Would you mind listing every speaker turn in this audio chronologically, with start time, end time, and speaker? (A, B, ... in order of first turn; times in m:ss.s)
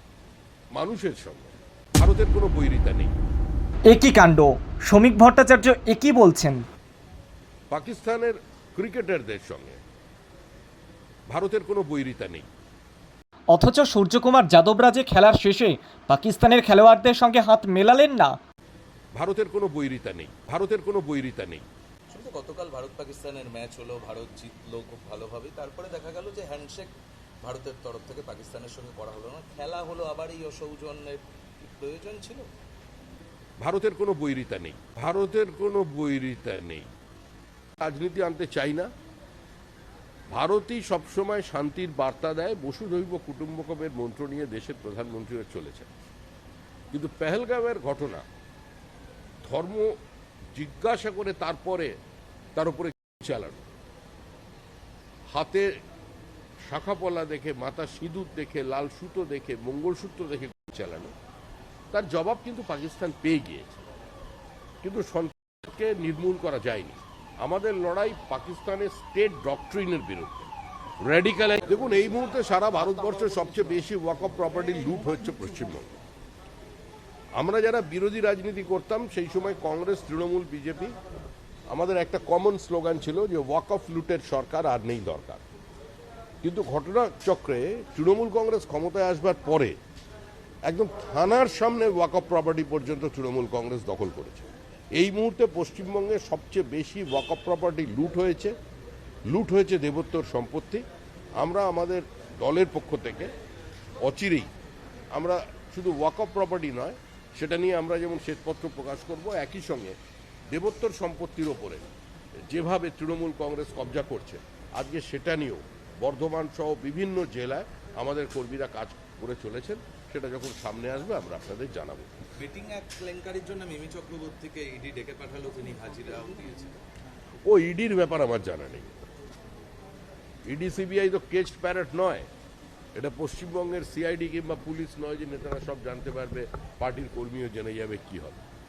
0:00.8-0:03.2 A
0:03.9-0:06.6 B
0:07.7-0:09.8 A
0:11.3-0:12.5 A
0:13.5-0:18.4 B
0:19.2-0:21.7 A
0:22.1-0:32.5 C
0:33.6-0:36.9 A
0:37.8-0:38.9 A
0:40.3-0:45.9 A
0:46.9-0:48.2 A
0:49.4-0:49.9 A
0:50.5-0:51.9 A
0:52.6-0:53.6 A
0:55.3-0:55.7 A
0:56.7-1:01.1 A
1:01.9-1:03.8 A
1:04.8-1:10.5 A
1:11.0-1:16.0 A
1:17.4-1:21.0 A
1:21.7-1:25.4 A
1:26.4-1:29.8 A
1:30.6-1:38.5 A
1:39.3-1:40.8 A
1:41.4-1:43.3 A
1:44.0-1:44.5 A
1:45.2-1:50.0 A
1:50.5-1:51.9 A
1:52.5-2:02.1 A
2:02.4-2:06.8 C
2:07.4-2:09.0 A
2:10.5-2:12.3 A
2:13.0-2:18.4 A